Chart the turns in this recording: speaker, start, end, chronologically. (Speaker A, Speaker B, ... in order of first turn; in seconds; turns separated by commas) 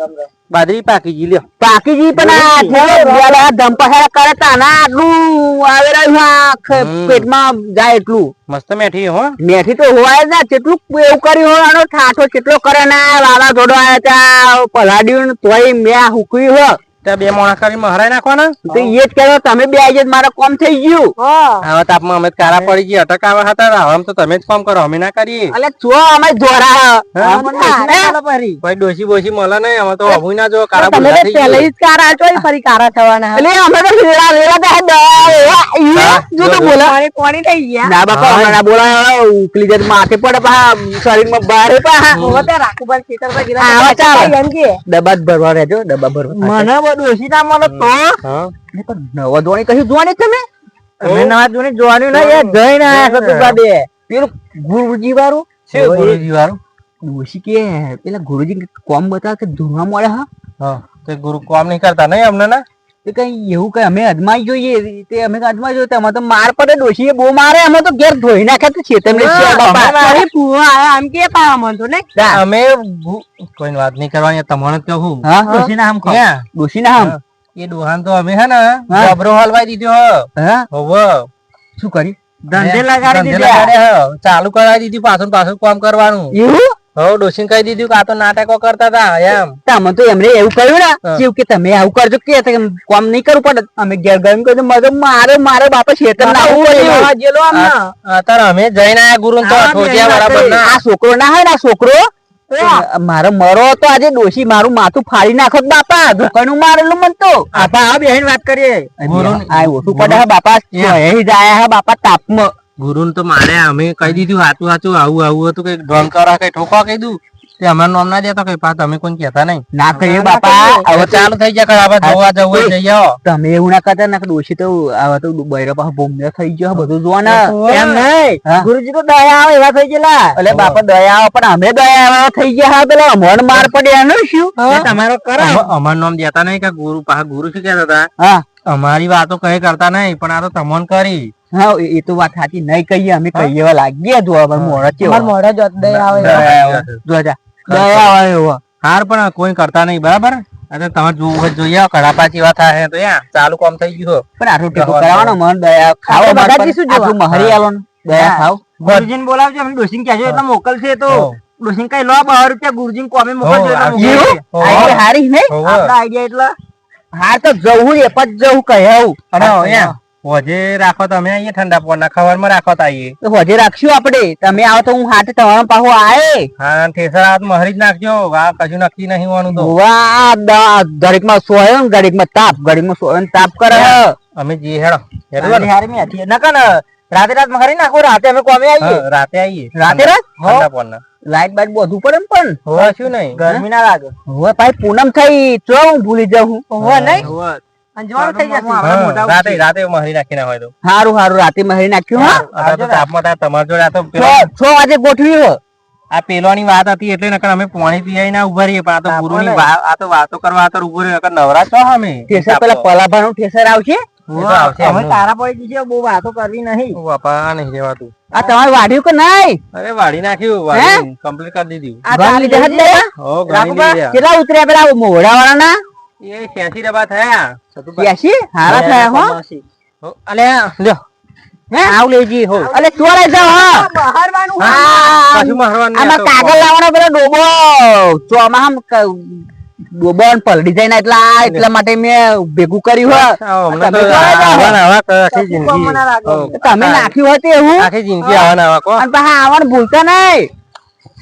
Speaker A: 0.5-1.4, Speaker B: 1.6-8.3, Speaker C: 2.2-3.2, Speaker A: 6.7-7.3, Speaker A: 8.5-9.3, Speaker B: 9.4-16.8, Speaker A: 17.0-18.9, Speaker B: 18.7-21.1, Speaker C: 21.2-21.6, Speaker A: 21.6-25.5, Speaker C: 22.4-22.7, Speaker B: 25.5-28.1, Speaker C: 27.1-28.6, Speaker A: 28.6-31.7, Speaker C: 30.7-33.4, Speaker B: 33.3-37.0, Speaker A: 35.2-36.7, Speaker C: 36.6-38.0, Speaker B: 37.8-42.2, Speaker A: 38.1-38.6, Speaker C: 42.1-44.7, Speaker A: 42.1-42.5, Speaker B: 43.6-44.3, Speaker B: 44.9-46.7, Speaker C: 46.3-48.2, Speaker A: 47.6-48.5, Speaker B: 48.7-50.5, Speaker C: 51.0-53.5, Speaker A: 51.0-51.4, Speaker A: 52.1-53.5, Speaker B: 52.9-55.5, Speaker A: 55.7-56.6, Speaker C: 55.7-56.2, Speaker B: 57.0-60.3, Speaker A: 60.6-62.6, Speaker B: 63.0-70.3, Speaker C: 69.1-72.1, Speaker B: 72.1-72.4, Speaker A: 72.3-75.3, Speaker B: 75.2-75.7, Speaker C: 75.5-76.2, Speaker A: 76.0-76.4, Speaker B: 76.5-77.2, Speaker A: 77.0-81.3, Speaker B: 78.9-79.1, Speaker B: 80.4-80.7, Speaker B: 81.8-82.2, Speaker C: 82.5-83.7, Speaker A: 82.5-86.3, Speaker B: 86.3-86.7, Speaker A: 87.0-89.6, Speaker B: 89.6-97.1, Speaker C: 96.2-97.9, Speaker A: 97.5-100.8, Speaker C: 99.4-100.6, Speaker B: 100.6-102.0, Speaker C: 102.5-102.8, Speaker B: 102.6-107.5, Speaker C: 107.5-108.9, Speaker B: 109.0-112.5, Speaker A: 109.0-111.0, Speaker A: 112.8-119.6, Speaker B: 119.7-121.3, Speaker C: 119.9-120.9, Speaker A: 120.9-123.2, Speaker B: 122.0-127.5, Speaker C: 127.3-130.4, Speaker A: 127.3-128.1, Speaker B: 128.4-128.7, Speaker B: 130.3-134.5, Speaker A: 130.5-130.8, Speaker C: 134.6-135.7, Speaker A: 134.7-138.1, Speaker B: 138.2-138.4, Speaker A: 138.6-141.3, Speaker B: 141.5-145.3, Speaker A: 144.6-144.8, Speaker C: 145.0-146.5, Speaker A: 145.8-147.0, Speaker B: 146.2-148.6, Speaker A: 147.7-148.2, Speaker A: 148.8-155.4, Speaker B: 154.4-159.1, Speaker C: 156.1-157.2, Speaker A: 157.3-157.6, Speaker C: 158.1-165.0, Speaker A: 161.1-161.4, Speaker A: 163.4-165.9, Speaker B: 163.9-165.5, Speaker C: 165.6-166.5, Speaker B: 167.1-169.2, Speaker A: 169.3-173.2, Speaker C: 169.4-169.9, Speaker B: 173.2-176.5, Speaker A: 176.6-179.7, Speaker B: 179.5-184.1, Speaker A: 183.7-185.7, Speaker C: 185.4-189.0, Speaker A: 188.8-191.0, Speaker B: 189.8-190.2, Speaker C: 190.4-190.7, Speaker B: 191.3-192.6, Speaker A: 192.7-193.5, Speaker C: 192.8-194.1, Speaker B: 194.3-196.6, Speaker C: 196.7-197.3, Speaker A: 196.8-197.6, Speaker C: 198.0-199.6, Speaker A: 198.8-200.7, Speaker B: 200.8-202.4, Speaker C: 202.2-203.0, Speaker A: 202.2-204.5, Speaker B: 204.1-205.6, Speaker A: 206.1-212.8, Speaker C: 209.1-209.7, Speaker B: 212.3-214.0, Speaker A: 214.3-215.2, Speaker C: 214.3-217.0, Speaker A: 216.9-218.1, Speaker B: 218.3-219.6, Speaker A: 219.7-222.0, Speaker B: 220.7-221.0, Speaker C: 222.0-224.0, Speaker B: 222.1-223.1, Speaker A: 223.2-224.2, Speaker B: 224.1-225.8, Speaker A: 226.2-228.1, Speaker B: 228.0-229.4, Speaker C: 228.7-229.6, Speaker A: 230.0-231.0, Speaker C: 231.7-232.7, Speaker B: 232.6-233.9, Speaker C: 233.6-235.1, Speaker B: 234.6-244.8, Speaker A: 234.6-236.7, Speaker A: 243.1-247.1, Speaker C: 244.0-244.5, Speaker C: 245.3-245.8, Speaker B: 246.5-247.9, Speaker A: 247.8-249.0, Speaker B: 249.0-250.5